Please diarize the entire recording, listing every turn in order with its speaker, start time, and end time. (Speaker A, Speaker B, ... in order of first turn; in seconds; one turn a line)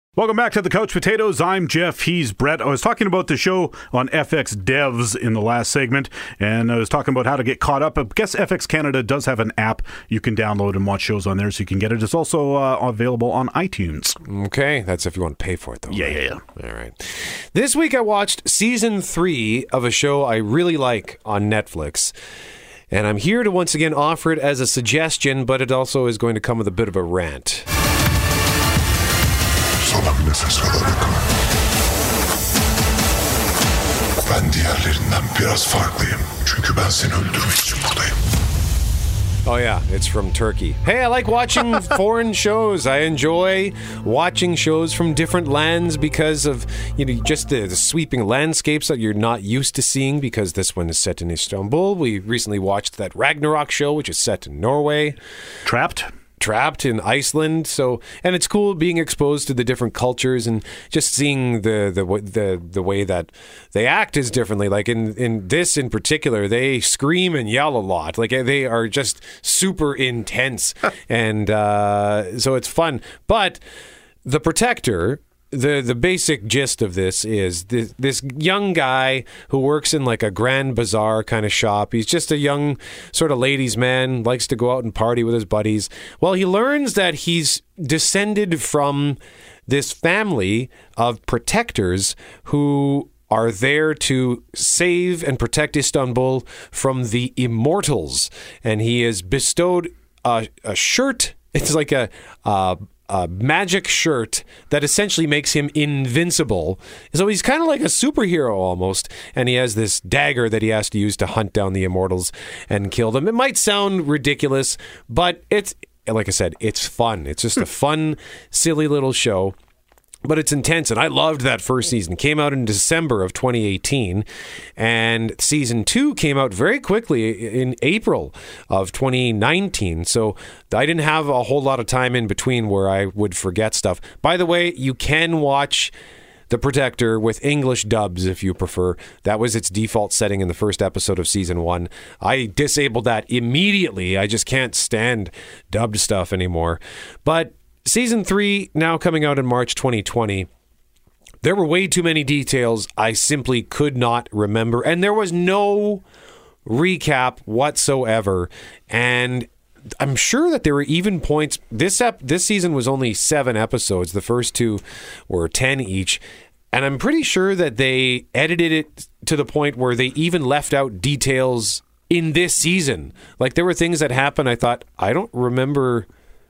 Speaker A: 0.2-14.2
Speaker B: 14.2-22.1
Speaker A: 15.9-16.4
Speaker B: 22.9-27.7
Speaker C: 29.9-31.1
Speaker C: 34.3-38.0
Speaker B: 39.5-55.2
Speaker A: 55.6-56.1
Speaker B: 56.4-73.6
Speaker B: 74.2-119.5
Speaker B: 120.2-124.2
Speaker B: 124.8-135.9
Speaker B: 136.5-150.5
Speaker B: 151.4-156.0
Speaker B: 156.7-166.2
Speaker B: 166.7-176.1